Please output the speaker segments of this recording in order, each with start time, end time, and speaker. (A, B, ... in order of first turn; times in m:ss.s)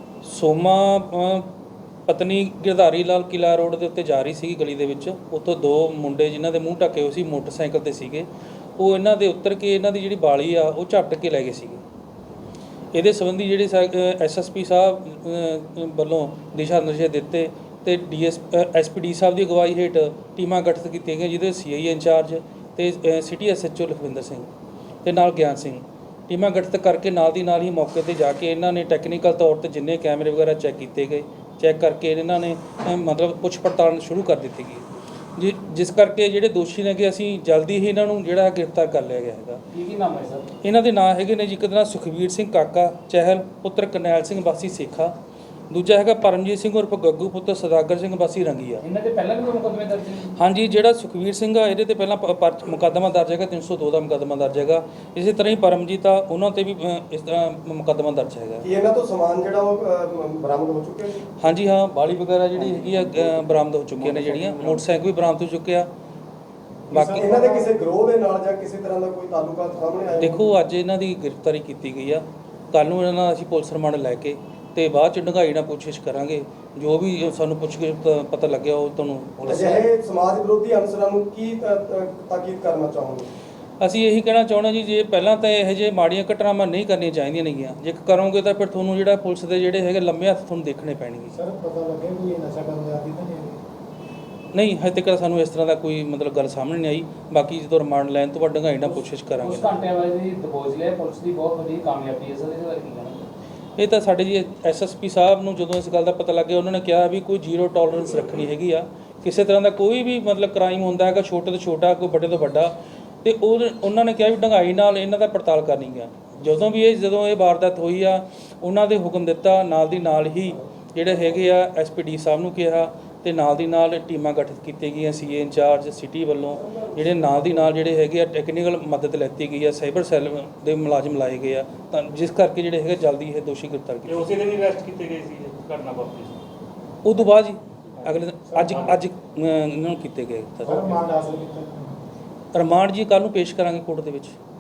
0:00.2-0:01.5 A
0:02.1-0:11.8 A
0:12.9-0:24.5 A
0:25.0-0:39.6 A
0:39.7-0:40.5 B
0:40.6-0:45.2 A
0:45.7-0:48.8 A
0:48.8-0:50.4 B
0:50.4-0:58.7 A
0:58.6-1:01.3 C
1:01.4-1:05.9 A
1:02.7-1:04.8 D
1:06.9-1:07.3 A
1:06.9-1:07.7 E
1:07.1-1:10.5 C
1:10.2-1:19.9 A
1:19.4-1:23.3 C
1:23.8-1:31.4 A
1:31.3-1:33.6 E
1:34.5-1:39.8 A
1:38.9-1:43.3 B
1:43.8-2:14.3 A
2:06.6-2:07.5 C
2:14.1-2:16.4 D
2:17.0-2:21.0 A
2:18.0-2:19.0 D
2:20.6-2:22.0 E
2:22.5-2:24.4 A